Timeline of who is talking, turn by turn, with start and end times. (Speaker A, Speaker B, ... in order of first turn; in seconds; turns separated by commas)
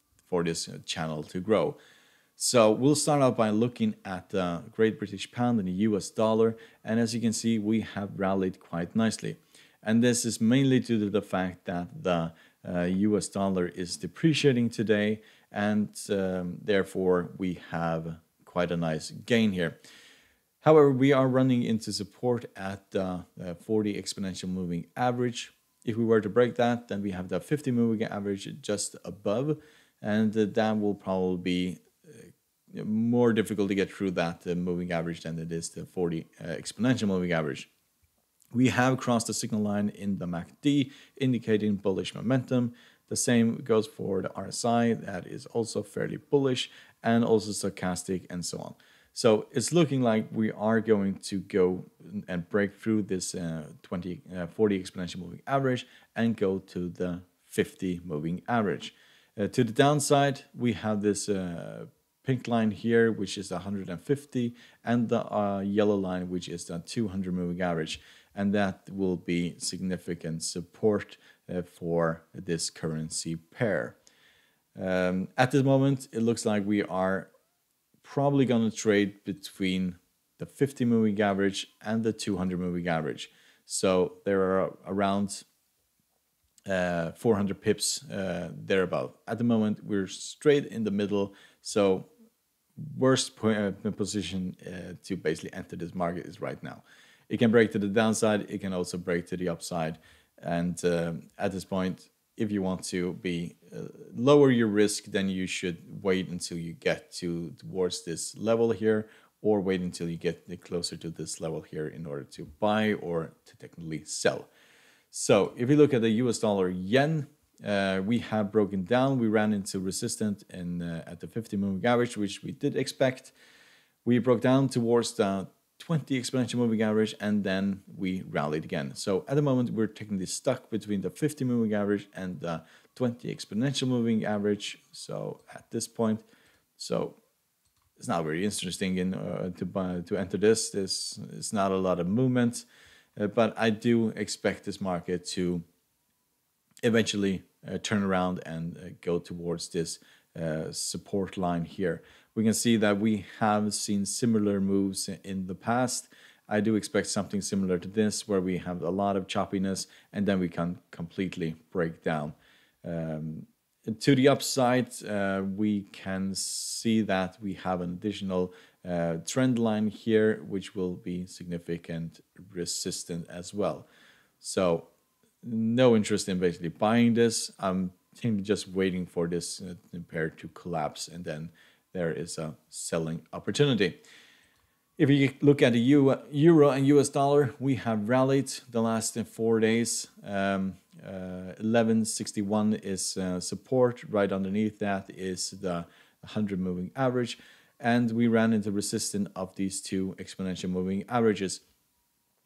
Speaker A: 0.3-1.8, Speaker A: 2.4-19.8, Speaker A: 20.6-31.9, Speaker A: 32.7-37.7, Speaker A: 38.5-74.0, Speaker A: 74.8-77.3, Speaker A: 78.0-85.5, Speaker A: 86.7-92.1, Speaker A: 92.8-114.5, Speaker A: 115.1-123.3, Speaker A: 124.0-136.3, Speaker A: 136.8-137.2, Speaker A: 138.0-145.7, Speaker A: 146.8-173.9, Speaker A: 174.4-174.9, Speaker A: 175.4-184.0, Speaker A: 185.0-201.6